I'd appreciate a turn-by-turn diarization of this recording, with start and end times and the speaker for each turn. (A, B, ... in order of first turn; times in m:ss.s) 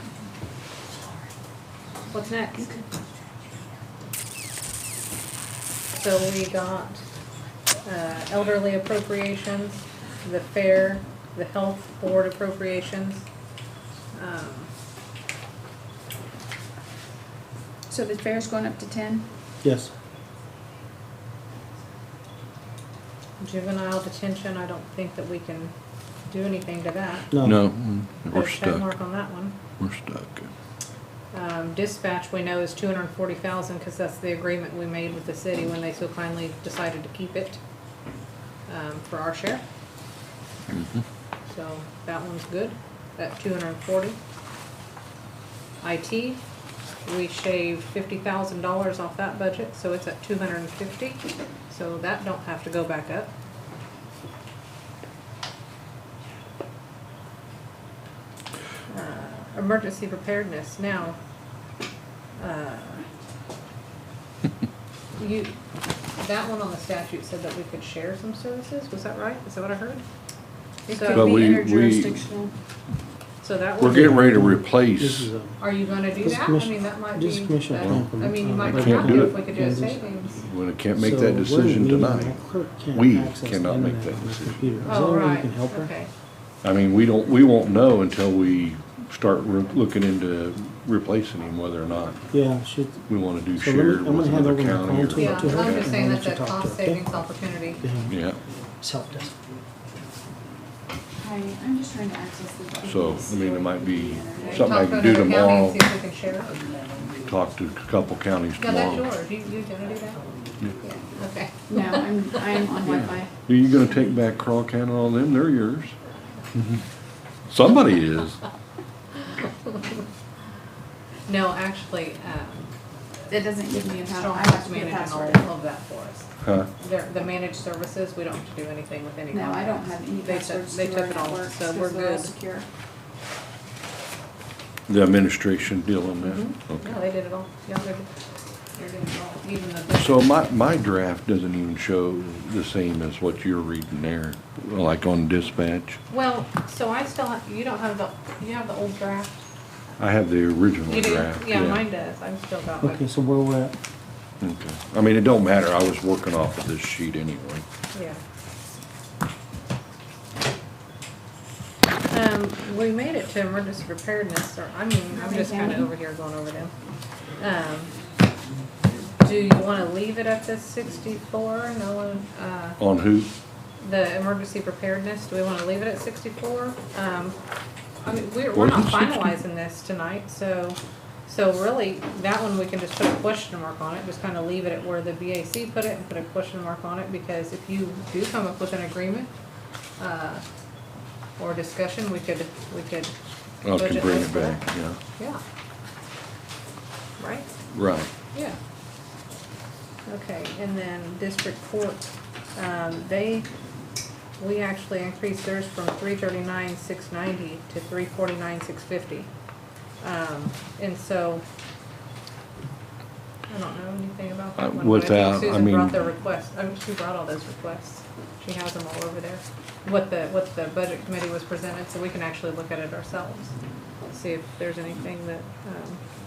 0:02.1-0:02.7 A
0:05.9-0:07.0 A
0:07.8-0:13.2 A
0:14.1-0:14.7 A
0:17.9-0:19.2 B
0:19.6-0:19.9 C
0:23.4-0:25.7 A
0:26.3-0:27.3 A
0:27.3-0:27.6 C
0:27.4-0:28.9 D
0:28.3-0:29.6 A
0:29.8-0:30.5 D
0:31.3-0:37.6 A
0:38.7-0:39.6 A
0:40.7-0:41.0 D
0:41.4-0:44.2 A
0:45.8-0:46.4 A
0:47.0-0:53.3 A
0:58.9-1:01.2 A
1:02.4-1:03.0 A
1:05.2-1:05.5 A
1:06.2-1:10.0 A
1:10.9-1:12.5 B
1:10.9-1:11.3 A
1:11.1-1:12.2 D
1:13.4-1:14.2 A
1:13.8-1:15.3 D
1:13.9-1:15.6 C
1:15.6-1:20.4 A
1:16.2-1:20.0 C
1:17.8-1:18.1 D
1:18.6-1:19.4 D
1:20.3-1:22.4 D
1:20.9-1:25.9 C
1:22.9-1:24.9 D
1:24.8-1:26.1 A
1:26.6-1:32.2 D
1:32.3-1:37.0 C
1:33.1-1:35.9 D
1:35.2-1:37.8 A
1:37.8-1:38.2 C
1:38.1-1:38.4 D
1:38.8-1:39.3 C
1:41.2-1:44.8 B
1:42.8-1:45.8 D
1:44.5-1:46.5 A
1:47.2-1:49.1 D
1:48.6-1:50.3 A
1:50.8-1:52.4 A
1:51.6-1:53.4 B
1:52.8-1:56.0 D
1:57.5-1:58.4 D
2:01.3-2:02.7 A
2:03.3-2:05.5 B
2:04.1-2:12.3 A
2:06.4-2:06.7 D
2:09.3-2:12.6 B
2:14.9-2:17.0 D
2:16.2-2:18.0 A
2:18.7-2:20.3 A
2:19.9-2:26.0 D
2:26.1-2:29.4 A
2:30.0-2:31.8 D
2:30.9-2:33.0 A
2:32.8-2:33.7 C
2:34.4-2:37.6 D
2:37.9-2:38.2 A
2:42.1-2:46.7 A
2:45.1-2:45.9 B
2:47.4-2:47.9 A
2:49.2-2:52.8 A
2:52.8-2:53.3 D
2:53.8-2:57.4 A
2:58.0-3:09.3 A
2:58.5-2:59.4 D
3:10.0-3:10.4 A
3:11.4-3:13.1 A
3:13.6-3:15.0 D
3:13.7-3:14.6 A
3:17.2-3:17.5 A
3:17.7-3:18.1 D
3:20.1-3:22.0 A
3:22.6-3:23.5 A
3:24.4-3:29.3 A
3:30.0-3:31.4 A
3:33.5-3:43.5 A
3:34.6-3:36.0 D
3:44.1-3:46.0 A